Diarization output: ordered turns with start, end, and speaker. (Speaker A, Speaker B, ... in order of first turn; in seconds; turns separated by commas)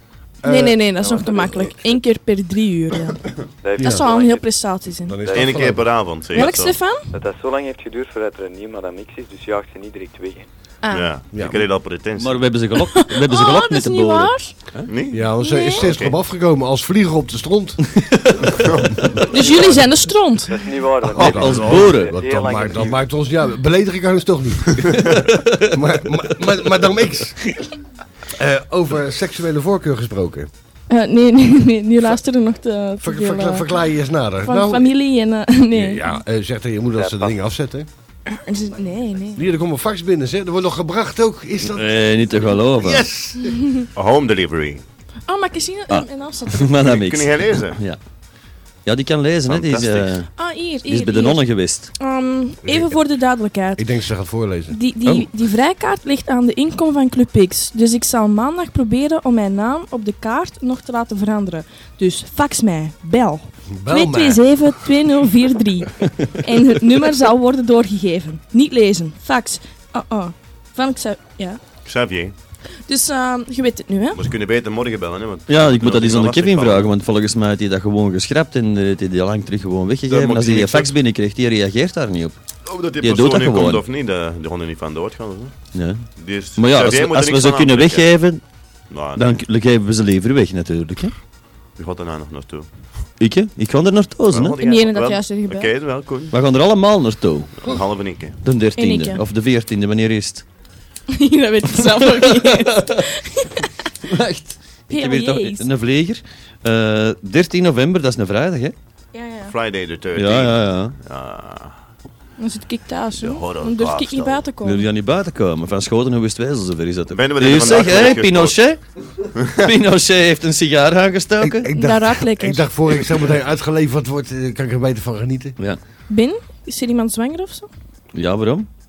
Speaker A: 0.4-1.8, Speaker B: 0.4-3.2, Speaker C: 3.6-4.5, Speaker A: 3.8-4.0, Speaker B: 3.8-5.2, Speaker A: 5.1-6.0, Speaker C: 5.2-5.6, Speaker D: 5.3-6.8, Speaker B: 6.3-7.1, Speaker C: 7.1-10.4, Speaker B: 10.8-11.1, Speaker D: 10.9-12.4, Speaker A: 11.3-11.7, Speaker E: 12.2-14.9, Speaker B: 12.9-14.5, Speaker D: 14.9-16.1, Speaker A: 15.1-17.8, Speaker B: 15.4-15.9, Speaker E: 17.9-18.5, Speaker D: 18.6-19.2, Speaker B: 19.3-20.6, Speaker C: 19.4-19.9, Speaker C: 20.5-23.0, Speaker A: 21.0-27.6, Speaker E: 21.1-22.1, Speaker E: 25.3-25.7, Speaker A: 28.3-30.5, Speaker B: 30.9-33.7, Speaker A: 33.0-34.9, Speaker B: 34.4-36.2, Speaker A: 35.7-37.9, Speaker C: 36.9-37.3, Speaker B: 38.3-39.5, Speaker A: 39.3-43.6, Speaker E: 41.6-43.0, Speaker B: 43.5-43.8, Speaker D: 43.9-44.8, Speaker B: 45.3-46.7, Speaker E: 45.9-48.0, Speaker D: 46.7-47.8, Speaker E: 48.8-50.3, Speaker D: 49.5-50.1, Speaker B: 50.4-51.4, Speaker E: 50.9-51.9, Speaker B: 52.0-53.8, Speaker A: 52.6-53.0, Speaker A: 53.8-54.8, Speaker B: 54.7-71.6, Speaker A: 63.7-64.7, Speaker D: 71.8-72.3, Speaker B: 72.9-74.2, Speaker D: 74.1-76.9, Speaker E: 75.5-82.3, Speaker D: 80.1-80.9, Speaker D: 82.7-85.5, Speaker E: 83.0-83.8, Speaker E: 85.7-88.4, Speaker D: 86.2-88.1, Speaker D: 88.9-89.2, Speaker E: 89.1-91.1, Speaker D: 91.8-92.7, Speaker E: 93.2-94.5, Speaker D: 94.3-96.3, Speaker B: 94.6-95.7, Speaker E: 96.3-97.7, Speaker D: 97.6-98.4, Speaker E: 98.4-100.4, Speaker B: 98.8-99.2, Speaker B: 101.1-103.7, Speaker E: 101.9-103.0, Speaker E: 104.0-108.7, Speaker B: 104.9-105.7, Speaker B: 109.1-109.5, Speaker D: 109.5-111.8, Speaker E: 110.1-110.9, Speaker B: 112.4-114.8, Speaker D: 113.2-114.4, Speaker E: 114.6-118.8, Speaker D: 117.1-118.5, Speaker D: 119.4-119.7, Speaker E: 119.6-121.7, Speaker A: 121.4-125.5, Speaker B: 121.8-122.7, Speaker B: 126.1-127.7, Speaker E: 128.1-128.7